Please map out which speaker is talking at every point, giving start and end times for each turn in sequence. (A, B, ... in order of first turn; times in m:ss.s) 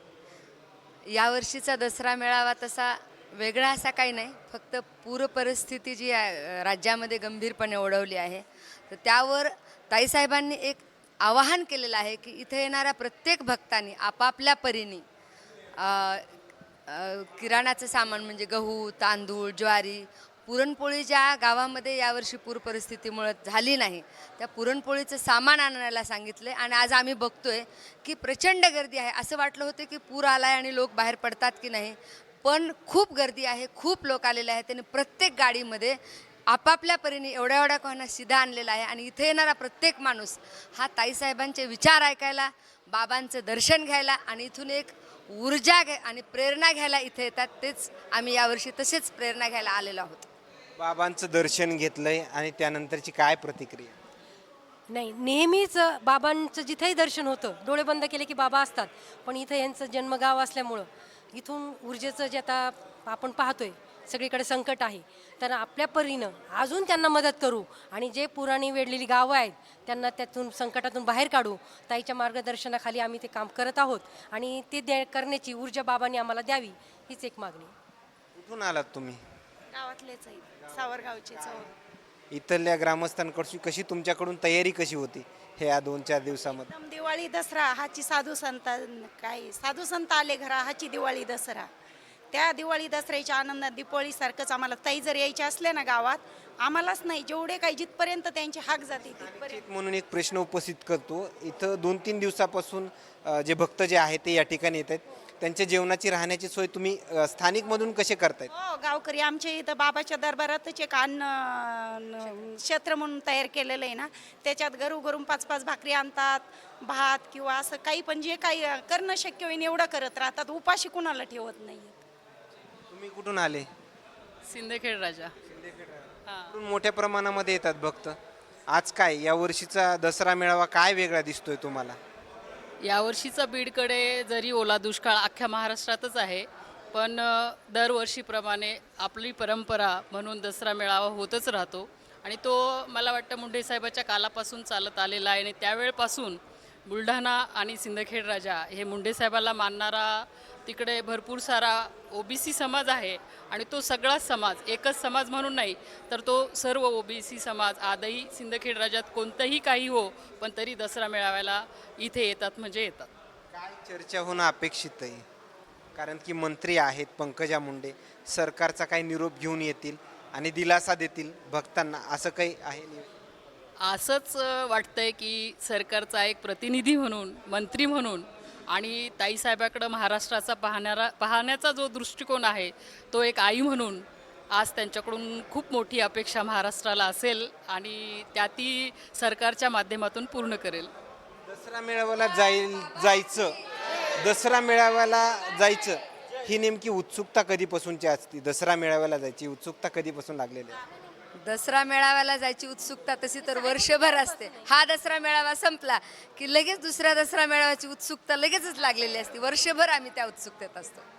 0:01.1-0:15.0 A
0:15.8-0:16.3 A
0:16.9-0:50.3 A
0:50.8-0:54.0 B
0:54.9-1:17.7 C
1:18.4-1:19.2 B
1:19.7-1:21.7 D
1:20.6-1:21.6 B
1:22.3-1:26.7 B
1:26.4-1:31.7 D
1:32.3-1:39.6 D
1:39.1-1:48.5 B
1:48.5-2:02.0 D
2:02.9-2:03.7 B
2:04.5-2:05.3 E
2:05.5-2:08.2 B
2:06.3-2:06.5 E
2:08.7-2:12.0 B
2:12.8-2:43.1 E
2:43.5-2:45.2 B
2:46.0-2:53.1 B
2:53.8-3:10.9 E
3:11.5-3:13.6 B
3:14.2-3:20.8 B
3:21.4-3:31.0 A
3:23.4-3:24.7 C